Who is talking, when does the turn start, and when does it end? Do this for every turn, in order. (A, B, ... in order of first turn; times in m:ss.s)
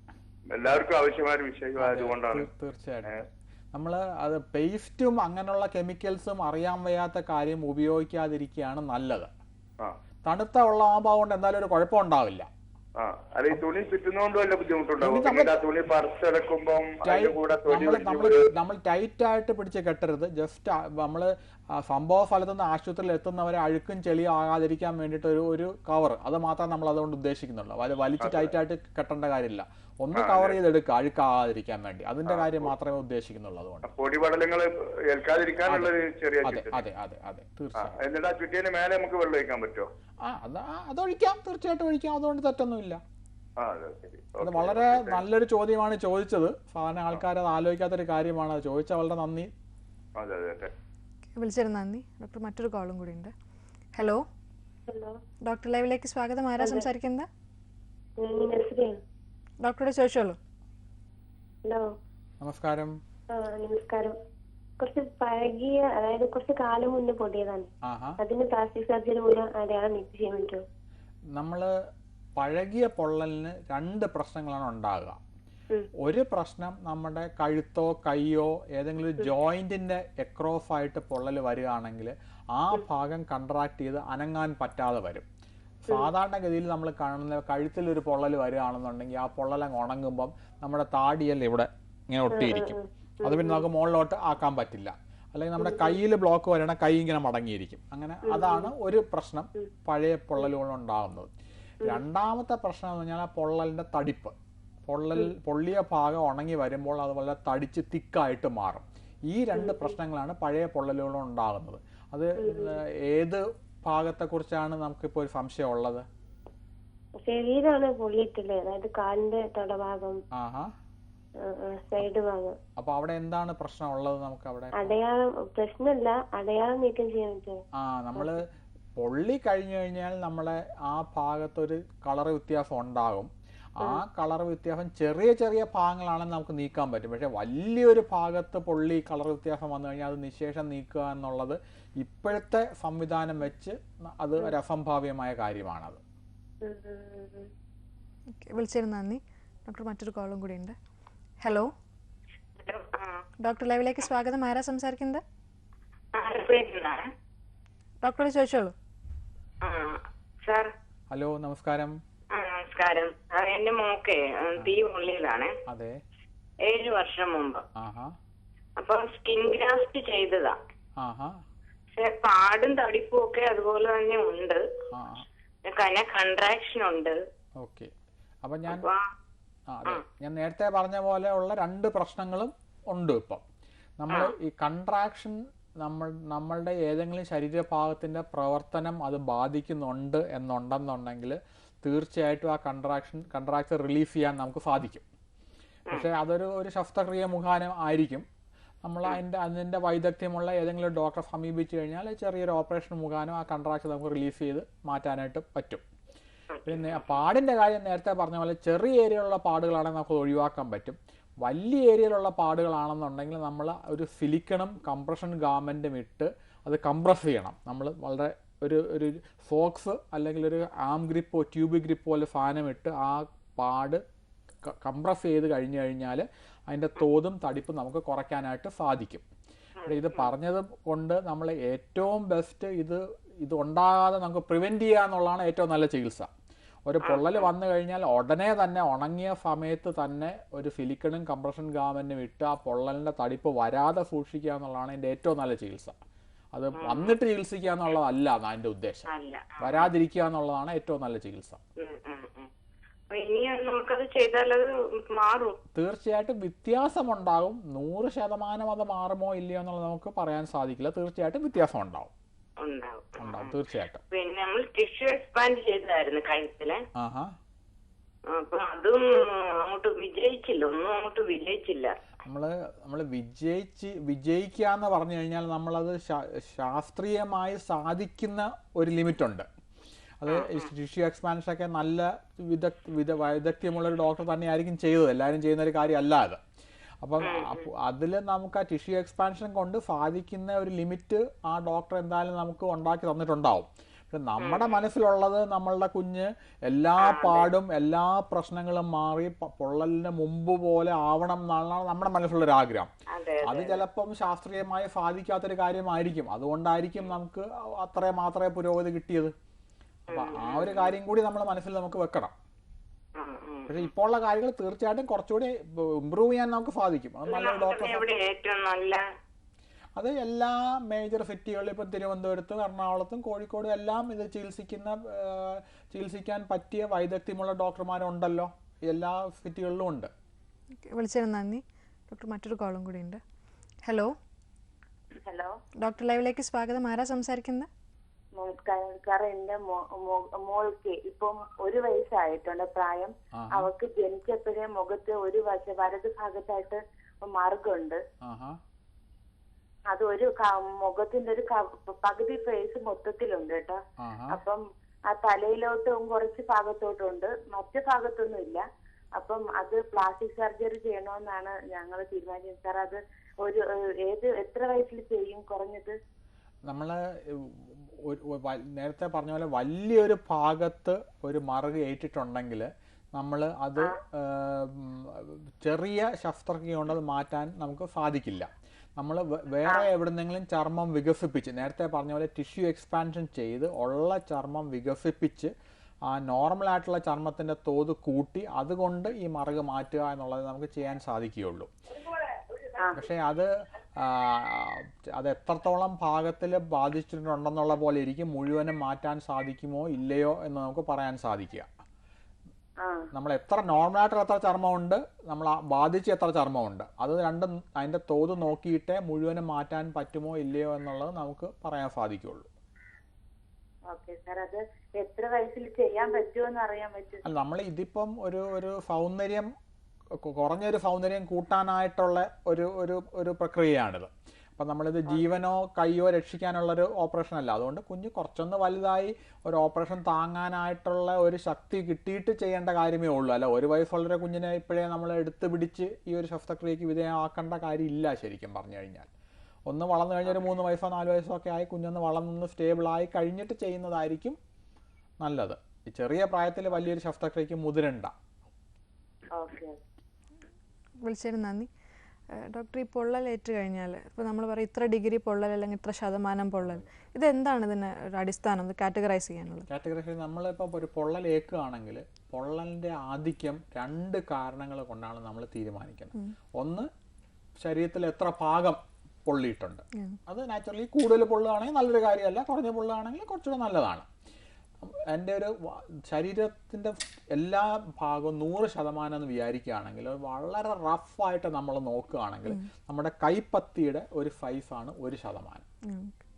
0:00.5-0:02.5 A
0:01.8-0:09.3 B
0:10.3-0:12.5 B
0:13.0-0:18.4 A
0:15.0-0:15.6 B
0:17.0-0:33.9 B
0:28.2-0:28.5 A
0:30.2-0:30.6 A
0:32.3-0:32.7 A
0:33.9-0:36.8 A
0:35.7-0:38.0 B
0:37.8-0:39.9 A
0:40.2-0:43.0 B
0:43.6-0:45.2 A
0:44.4-0:49.5 B
0:50.2-0:50.7 A
0:51.4-0:53.3 C
0:54.0-0:54.2 C
0:54.9-0:55.2 D
0:55.5-0:57.3 C
0:56.6-0:56.8 D
0:58.2-0:59.0 D
0:59.6-1:00.4 C
1:02.4-1:03.0 B
1:03.3-1:04.1 D
1:04.8-1:07.7 D
1:07.8-1:08.2 B
1:08.2-1:10.6 D
1:11.3-1:11.7 B
1:12.4-1:15.2 B
1:16.0-1:25.3 B
1:25.9-1:26.1 D
1:25.9-1:41.3 B
1:32.3-1:33.6 D
1:35.6-1:36.0 D
1:38.2-1:38.7 D
1:41.8-1:44.4 B
1:44.9-1:56.1 B
1:49.6-1:50.0 D
1:52.4-1:52.8 D
1:57.2-2:00.2 D
2:00.3-2:00.7 B
2:01.4-2:02.6 D
2:02.8-2:05.0 B
2:04.8-2:07.6 D
2:07.8-2:26.0 B
2:26.6-2:27.5 D
2:28.3-2:30.8 C
2:31.4-2:31.7 C
2:32.6-2:33.2 E
2:33.4-2:35.2 C
2:36.2-2:37.0 E
2:38.0-2:38.7 C
2:39.6-2:40.7 E
2:41.1-2:42.0 B
2:42.3-2:45.5 E
2:45.7-2:46.0 B
2:46.7-2:47.6 E
2:47.8-2:48.2 B
2:48.8-2:50.6 E
2:51.0-2:51.3 B
2:51.9-2:54.6 E
2:54.9-2:55.3 B
2:55.7-2:57.2 E
2:57.6-2:57.9 B
2:58.4-2:58.9 B
2:58.7-2:59.1 E
2:59.7-3:03.4 B
3:04.0-3:15.0 B
3:15.9-3:18.3 B
3:18.8-3:25.8 B
3:26.5-3:27.2 E
3:26.7-3:44.0 B
3:44.7-3:49.2 B
3:49.8-3:56.3 B
3:56.9-4:06.0 B
3:57.1-3:57.4 E
4:06.5-4:09.1 B
4:06.8-4:07.1 E
4:09.1-4:09.9 E
4:09.6-4:11.6 B
4:11.8-4:12.5 E
4:13.1-4:15.6 E
4:15.8-4:22.1 B
4:22.6-4:23.5 E
4:23.2-4:24.0 B
4:24.1-4:26.8 E
4:27.0-4:27.3 B
4:28.3-4:32.0 E
4:32.2-4:39.5 B
4:40.2-4:46.4 B
4:40.3-4:40.6 E
4:47.0-5:02.9 B
4:47.2-4:47.7 E
4:54.4-4:54.7 E
4:57.0-4:57.5 E
5:03.1-5:03.8 E
5:03.4-5:09.3 B
5:10.1-5:10.9 E
5:10.1-5:12.4 B
5:13.2-5:13.9 E
5:13.7-5:18.1 B
5:17.3-5:19.0 E
5:20.0-5:30.1 B
5:30.8-5:33.2 C
5:33.8-5:34.1 C
5:35.2-5:35.5 D
5:35.8-5:37.7 C
5:38.4-5:48.0 D
5:43.4-5:43.7 B
5:48.2-5:48.6 B
5:49.9-5:53.8 D
5:54.0-5:54.4 B
5:54.3-5:58.6 D
5:59.2-6:06.0 D
6:06.7-6:25.5 B
6:26.1-6:31.7 B
6:32.8-6:33.0 D
6:32.9-6:41.7 B
6:42.8-6:43.1 D
6:43.1-6:52.5 B
6:53.9-6:57.2 D
6:57.2-6:59.5 B
7:00.2-7:19.1 B
7:19.7-7:24.4 B
7:25.2-7:28.1 B
7:29.3-7:29.8 D
7:31.0-7:31.7 C
7:32.3-7:39.7 C
7:39.7-7:46.9 B
7:47.6-7:54.1 B
7:54.8-8:05.6 B
8:05.9-8:06.2 C